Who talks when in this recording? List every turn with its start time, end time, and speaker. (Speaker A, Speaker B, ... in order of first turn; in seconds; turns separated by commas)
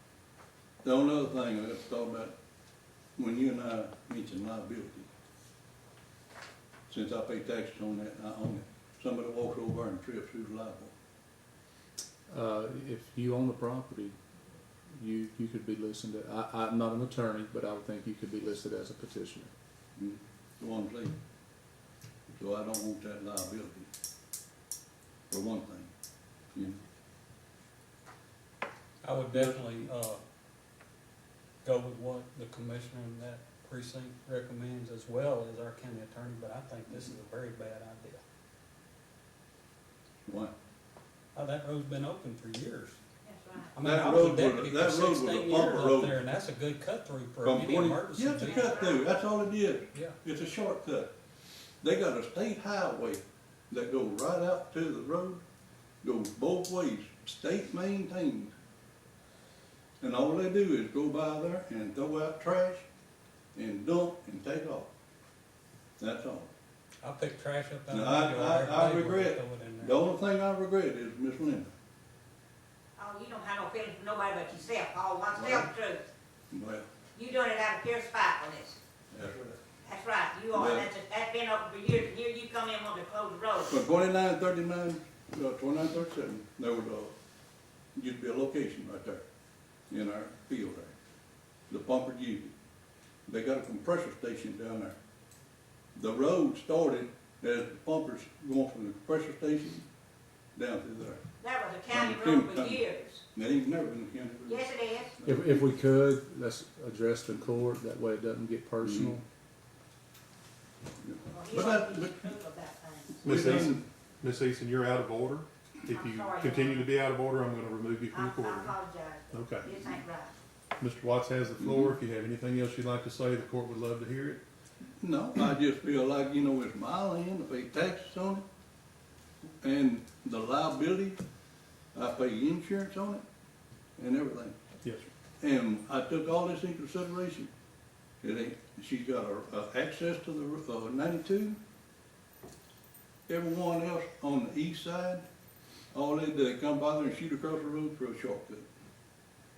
Speaker A: 0.8-2.3, Speaker A: 3.2-5.1, Speaker A: 6.9-10.9, Speaker B: 12.3-14.2, Speaker B: 14.9-19.5, Speaker A: 19.9-21.1, Speaker A: 22.4-23.9, Speaker A: 25.3-25.9, Speaker A: 26.5-26.8, Speaker C: 29.0-30.2, Speaker C: 31.6-38.2, Speaker A: 40.2-40.5, Speaker C: 41.3-43.0, Speaker D: 43.2-43.8, Speaker C: 43.7-48.7, Speaker A: 43.8-46.2, Speaker A: 47.4-51.1, Speaker D: 48.4-49.0, Speaker A: 51.8-55.4, Speaker A: 56.0-58.5, Speaker A: 60.0-62.9, Speaker A: 63.5-64.9, Speaker A: 66.0-66.5, Speaker C: 67.0-70.0, Speaker A: 67.9-71.7, Speaker D: 73.0-76.0, Speaker A: 75.3-75.7, Speaker A: 76.5-76.9, Speaker D: 77.1-78.8, Speaker A: 79.1-79.6, Speaker D: 79.8-83.8, Speaker A: 80.5-80.9, Speaker A: 83.7-87.1, Speaker A: 87.9-89.2, Speaker A: 89.9-90.9, Speaker A: 91.7-92.5, Speaker A: 93.3-95.0, Speaker A: 95.9-99.9, Speaker A: 100.5-101.2, Speaker D: 101.4-103.2, Speaker A: 101.9-105.6, Speaker D: 104.5-105.1, Speaker B: 105.2-109.2, Speaker A: 108.8-109.1, Speaker A: 111.0-112.2, Speaker D: 111.3-113.2, Speaker A: 113.2-113.8, Speaker E: 113.2-118.8, Speaker D: 115.9-116.9, Speaker D: 118.1-120.3, Speaker E: 119.3-119.8, Speaker E: 120.8-124.4, Speaker A: 125.0-128.4, Speaker A: 129.6-131.2, Speaker A: 131.9-133.2, Speaker A: 134.0-134.6, Speaker A: 135.4-137.5, Speaker A: 138.2-141.6, Speaker A: 143.3-145.2, Speaker A: 145.9-148.7